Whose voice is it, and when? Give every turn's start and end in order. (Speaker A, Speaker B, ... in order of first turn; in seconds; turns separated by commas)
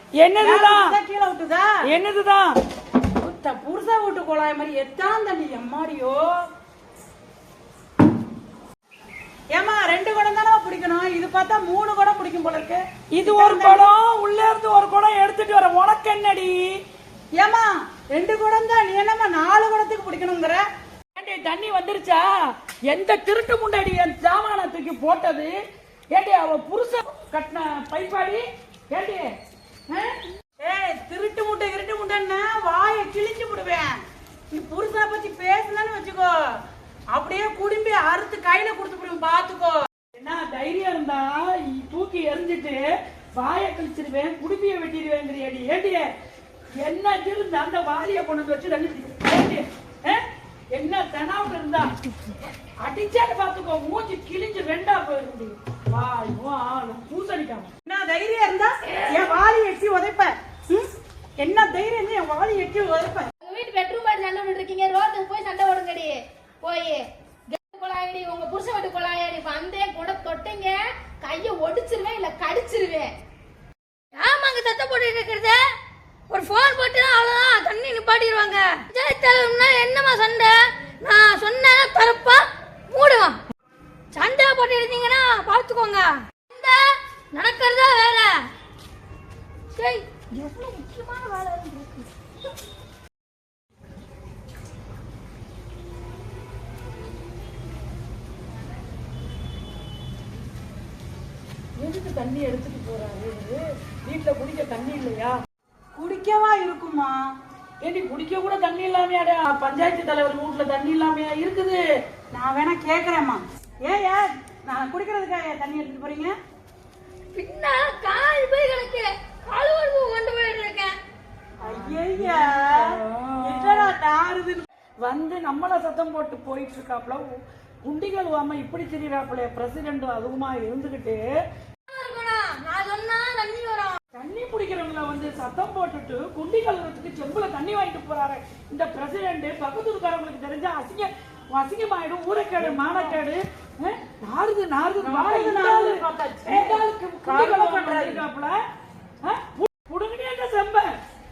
Speaker A: 0.2-0.9, Speaker B: 0.4-1.7, Speaker A: 1.9-2.6, Speaker B: 3.2-6.3, Speaker B: 9.5-13.9, Speaker A: 13.1-16.6, Speaker B: 17.4-20.6, Speaker A: 21.1-22.3, Speaker A: 22.9-25.5, Speaker A: 26.1-29.3, Speaker A: 29.9-30.2, Speaker B: 30.6-34.0, Speaker B: 34.5-36.4, Speaker B: 37.1-39.8, Speaker A: 40.2-42.8, Speaker A: 43.4-46.1, Speaker A: 46.8-51.9, Speaker A: 52.8-57.7, Speaker B: 57.9-60.9, Speaker B: 61.4-63.3, Speaker C: 63.4-73.1, Speaker D: 74.2-75.7, Speaker D: 76.3-83.4, Speaker D: 84.1-88.4, Speaker D: 89.8-92.1, Speaker A: 101.8-105.4, Speaker B: 106.0-107.2, Speaker A: 107.8-111.8, Speaker B: 112.3-116.3, Speaker D: 117.3-121.0, Speaker B: 121.6-124.7, Speaker A: 121.6-124.0, Speaker A: 125.0-131.2, Speaker D: 131.9-134.0, Speaker A: 134.1-148.6, Speaker B: 142.6-143.2, Speaker B: 145.0-148.2, Speaker A: 149.2-150.9